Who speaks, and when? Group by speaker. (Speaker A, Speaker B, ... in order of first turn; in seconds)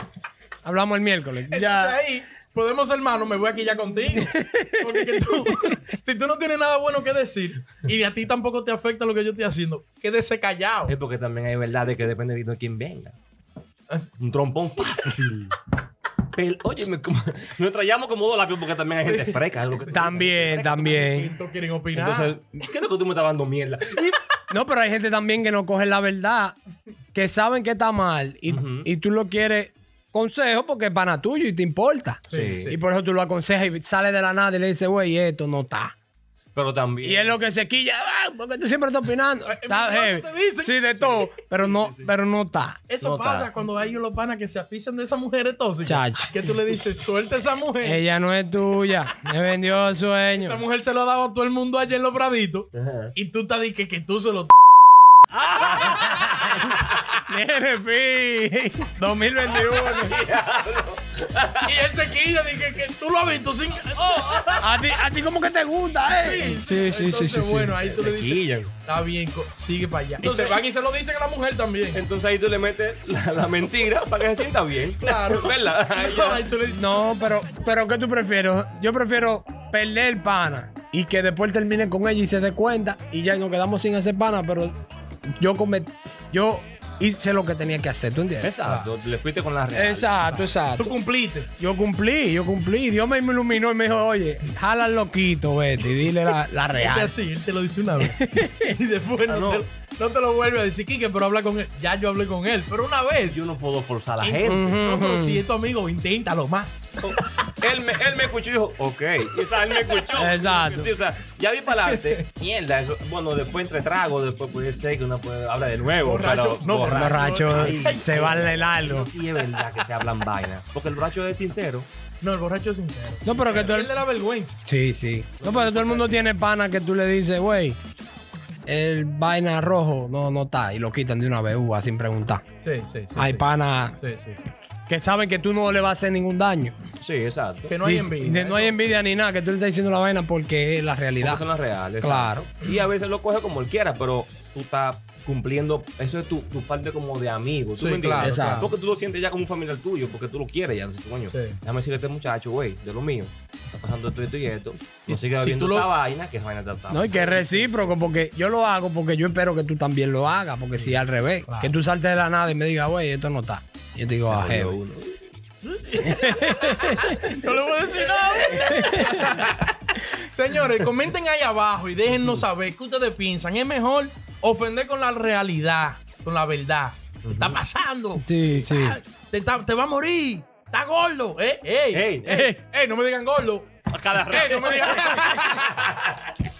Speaker A: 0.6-2.0, 4.1-5.7, 19.9-21.3, 24.5-26.6, 27.1-35.9, 37.0-42.8, 45.8-46.4, 47.8-50.6, 57.2-60.2, 64.6-67.7, 76.7-84.7, 85.4-88.5, 89.7-90.9, 91.6-97.1, 98.0-98.7, 104.4-105.4, 110.1-110.9, 116.9-119.1, 123.2-123.9, 124.7-127.8, 128.7-132.4, 133.2-133.9, 134.9-136.7, 137.8-141.4, 142.0-142.5, 148.2-148.7, 156.9-164.8, 166.0-167.3, 168.6-169.4, 178.2-179.0, 182.3-182.6
Speaker B: 1.5-10.9, 19.0-20.1, 20.9-22.4, 32.3-32.8, 39.5-42.0, 42.9-48.0, 50.4-54.5, 61.6-64.6, 66.1-72.0, 74.9-77.0, 88.6-88.9, 90.8-91.5, 96.8-103.5, 104.2-107.1, 111.8-112.2, 116.0-118.2, 122.2-124.6, 132.6-133.4, 134.0-134.4, 137.7-139.0, 147.8-148.7, 151.3-151.6, 155.1-155.9, 161.5-161.7, 165.7-183.7, 184.2-186.0
Speaker C: 10.9-13.2, 14.2-15.6, 16.3-21.1, 21.9-24.3, 28.5-28.9, 32.3-32.7, 36.5-37.4, 43.0-43.5, 52.7-53.1, 55.3-57.1, 59.5-61.7, 64.0-64.8, 67.8-68.7, 70.2-70.5, 71.9-76.4, 88.4-90.5, 99.3-99.6, 103.3-104.7, 107.6-121.9, 125.4-126.2, 137.0-137.7, 141.2-157.9, 160.7-161.0, 164.2-165.2, 172.1-172.4, 177.2-177.6, 181.9-182.4, 183.9-186.3